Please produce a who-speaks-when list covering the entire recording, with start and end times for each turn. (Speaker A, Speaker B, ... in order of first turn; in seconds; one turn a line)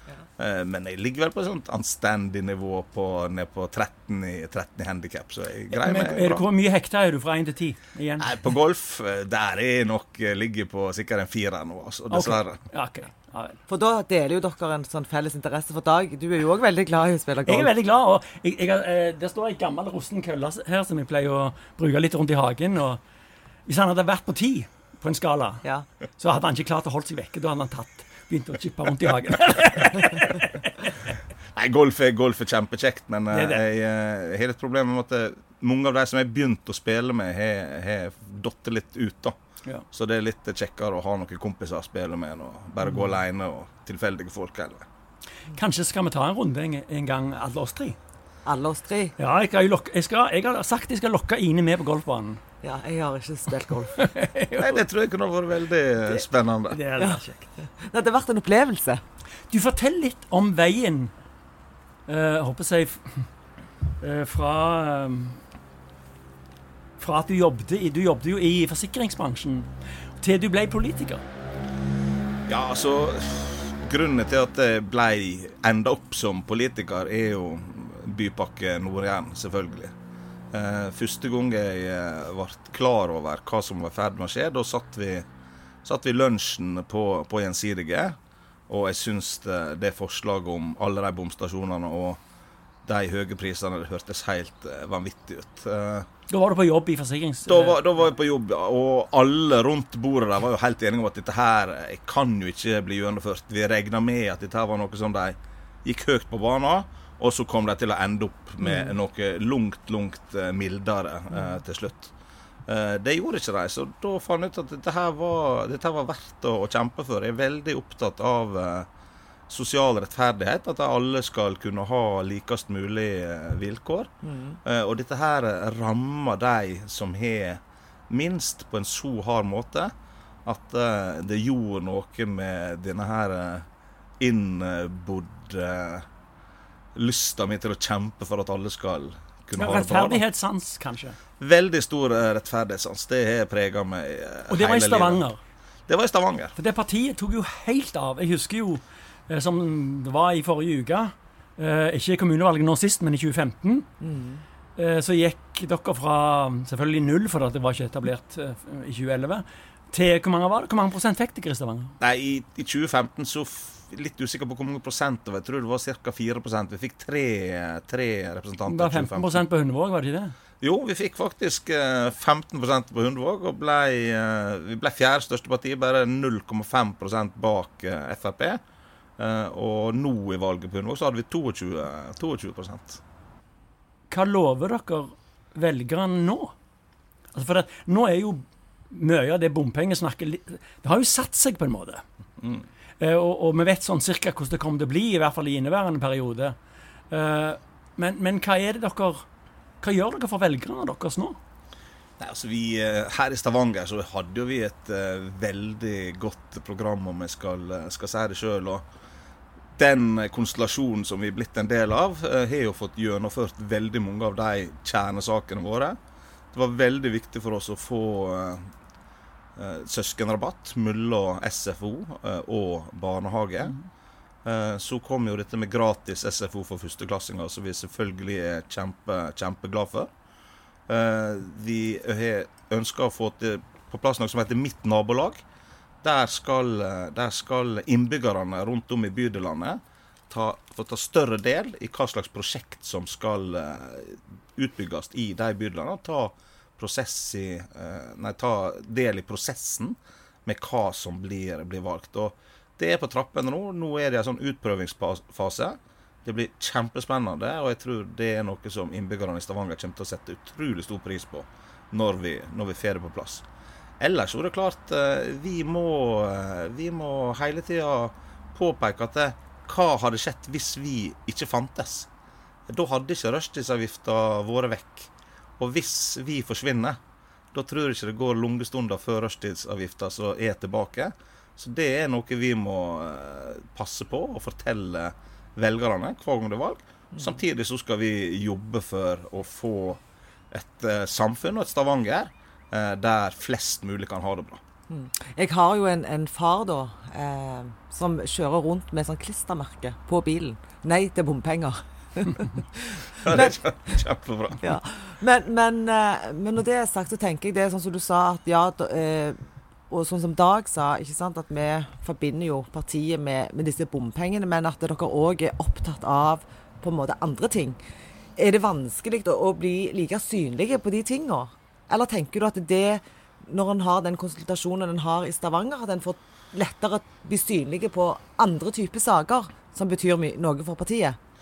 Speaker A: 0.4-6.4
Speaker B: 5.7-8.4
Speaker A: 8.2-12.6
Speaker B: 12.1-13.6
Speaker C: 13.7-17.7
Speaker B: 17.4-23.0
Speaker B: 23.6-25.6
Speaker B: 26.2-30.7
Speaker A: 31.5-39.4
Speaker B: 33.3-33.6
Speaker A: 39.9-44.9
Speaker B: 45.5-48.0
Speaker C: 48.5-49.1
Speaker B: 49.2-52.4
Speaker C: 52.6-53.9
Speaker B: 53.9-54.8
Speaker A: 54.5-56.8
Speaker B: 56.1-57.5
Speaker C: 57.0-59.0
Speaker B: 59.5-61.1
Speaker B: 62.1-63.3
Speaker B: 64.0-65.4
Speaker B: 67.0-69.7
Speaker B: 70.2-71.2
Speaker A: 72.5-79.9
Speaker A: 80.5-85.3
Speaker A: 85.8-88.2
Speaker A: 88.7-92.2
Speaker A: 92.8-96.1
Speaker B: 96.3-97.8
Speaker A: 97.5-112.1
Speaker C: 108.6-108.9
Speaker A: 112.7-118.9
Speaker A: 119.5-124.1
Speaker C: 124.2-124.6
Speaker A: 124.6-129.9
Speaker A: 130.4-133.7
Speaker A: 134.2-136.1
Speaker A: 136.9-140.2
Speaker B: 139.6-141.2
Speaker A: 141.4-145.2
Speaker B: 144.5-145.4
Speaker A: 145.9-146.5
Speaker B: 146.6-153.9
Speaker C: 154.0-154.4
Speaker B: 154.8-161.9
Speaker A: 162.0-169.4
Speaker B: 168.6-170.3
Speaker A: 170.6-178.6
Speaker A: 179.2-183.0
Speaker B: 184.1-186.5
Speaker B: 187.3-192.0
Speaker B: 193.0-196.5
Speaker B: 197.1-199.2
Speaker B: 199.8-201.4
Speaker A: 202.2-208.8
Speaker A: 209.8-216.0
Speaker A: 216.5-218.7
Speaker A: 219.6-223.8
Speaker A: 224.4-230.1
Speaker A: 230.9-235.4
Speaker A: 236.0-263.4
Speaker A: 264.0-272.1
Speaker A: 272.7-277.0
Speaker A: 277.5-290.0
Speaker A: 290.5-294.6
Speaker C: 294.9-303.6
Speaker A: 303.2-304.6
Speaker C: 304.6-317.8
Speaker C: 318.4-331.2